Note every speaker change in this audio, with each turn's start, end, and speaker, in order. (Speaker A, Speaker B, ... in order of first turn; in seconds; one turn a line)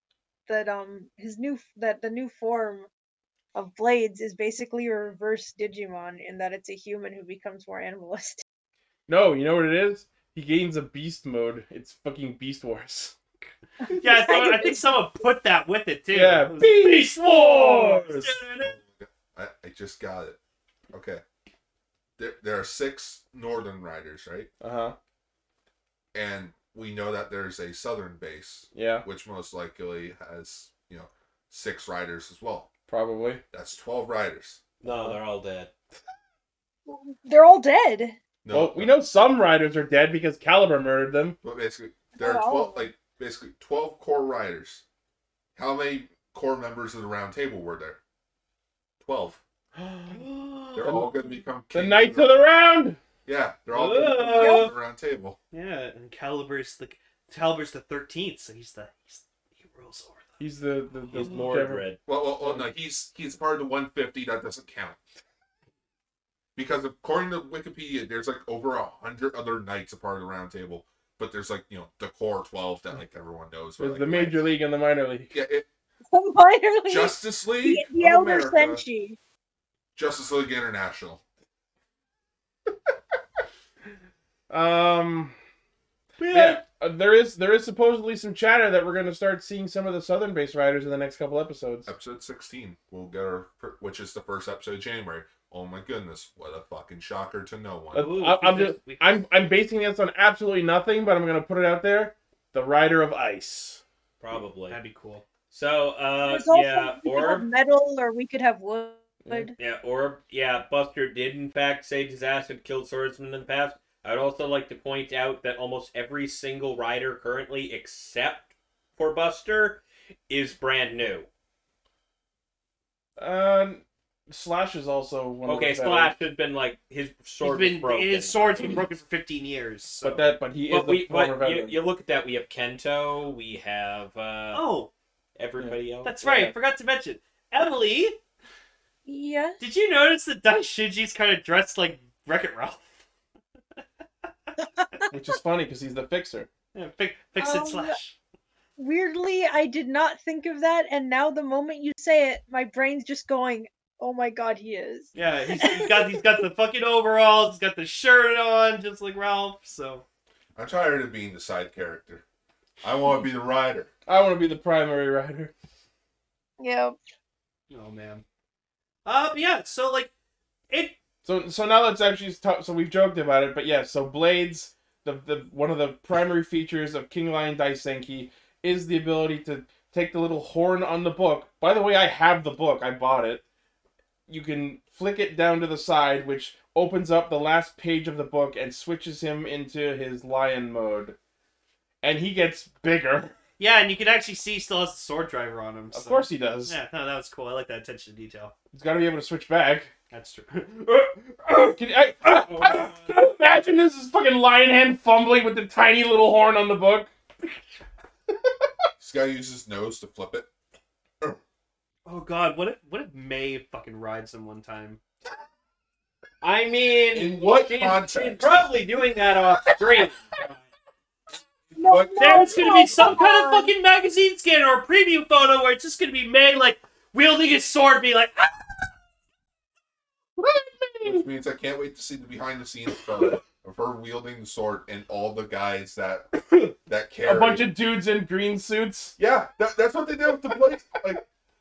Speaker A: 0.5-2.9
Speaker A: 3.5-8.4
Speaker B: 9.1-13.2
Speaker A: 13.9-14.8
Speaker C: 14.0-18.8
Speaker B: 16.1-18.4
Speaker D: 18.6-20.4
Speaker D: 20.9-21.2
Speaker D: 22.2-24.5
Speaker B: 24.6-25.0
Speaker D: 26.1-32.7
Speaker B: 28.7-29.1
Speaker B: 32.9-33.4
Speaker D: 33.5-34.6
Speaker E: 34.8-35.7
Speaker B: 34.9-35.2
Speaker A: 36.9-38.2
Speaker D: 38.4-38.9
Speaker B: 38.5-41.4
Speaker D: 41.4-44.8
Speaker A: 42.2-42.9
Speaker D: 45.6-48.0
Speaker D: 49.0-49.4
Speaker B: 49.8-50.2
Speaker C: 50.1-51.1
Speaker D: 50.8-52.4
Speaker B: 51.7-53.0
Speaker D: 53.2-55.4
Speaker C: 53.7-54.7
Speaker A: 54.3-54.7
Speaker C: 55.5-60.4
Speaker B: 60.4-61.9
Speaker E: 61.1-62.0
Speaker D: 62.1-65.0
Speaker D: 66.6-74.5
Speaker B: 73.8-75.3
Speaker D: 75.3-75.7
Speaker A: 76.1-79.2
Speaker D: 76.9-78.8
Speaker D: 80.0-81.2
Speaker B: 84.5-85.3
Speaker C: 86.2-86.6
Speaker B: 86.3-91.9
Speaker D: 91.9-98.0
Speaker B: 97.9-103.8
Speaker E: 98.0-99.0
Speaker C: 98.0-99.0
Speaker E: 104.2-104.8
Speaker C: 104.7-105.2
Speaker E: 105.5-107.5
Speaker A: 106.2-109.6
Speaker E: 109.6-121.3
Speaker B: 123.2-126.2
Speaker E: 125.5-128.8
Speaker C: 127.4-130.3
Speaker B: 130.0-131.8
Speaker E: 130.7-134.6
Speaker C: 134.5-134.9
Speaker E: 135.4-136.5
Speaker C: 136.0-138.2
Speaker A: 139.1-139.6
Speaker C: 139.6-142.8
Speaker B: 145.1-146.5
Speaker C: 146.7-148.1
Speaker A: 147.4-148.0
Speaker A: 148.8-156.2
Speaker C: 155.2-160.1
Speaker D: 160.6-162.2
Speaker D: 162.8-163.9
Speaker B: 164.1-165.5
Speaker A: 166.6-167.0
Speaker C: 167.7-168.2
Speaker C: 169.1-170.1
Speaker C: 170.7-171.0
Speaker B: 171.2-183.4
Speaker B: 184.3-191.2
Speaker B: 192.0-193.3
Speaker C: 193.6-198.5
Speaker B: 195.9-196.8
Speaker B: 198.7-199.9
Speaker C: 200.1-201.2
Speaker B: 201.4-207.1
Speaker E: 202.2-203.1
Speaker D: 209.0-210.5
Speaker C: 212.1-215.0
Speaker E: 216.4-220.4
Speaker D: 217.1-218.7
Speaker D: 221.7-223.2
Speaker A: 221.8-223.7
Speaker C: 222.2-228.5
Speaker B: 230.4-231.2
Speaker D: 231.0-236.3
Speaker D: 236.8-237.7
Speaker B: 237.2-239.2
Speaker D: 239.2-241.2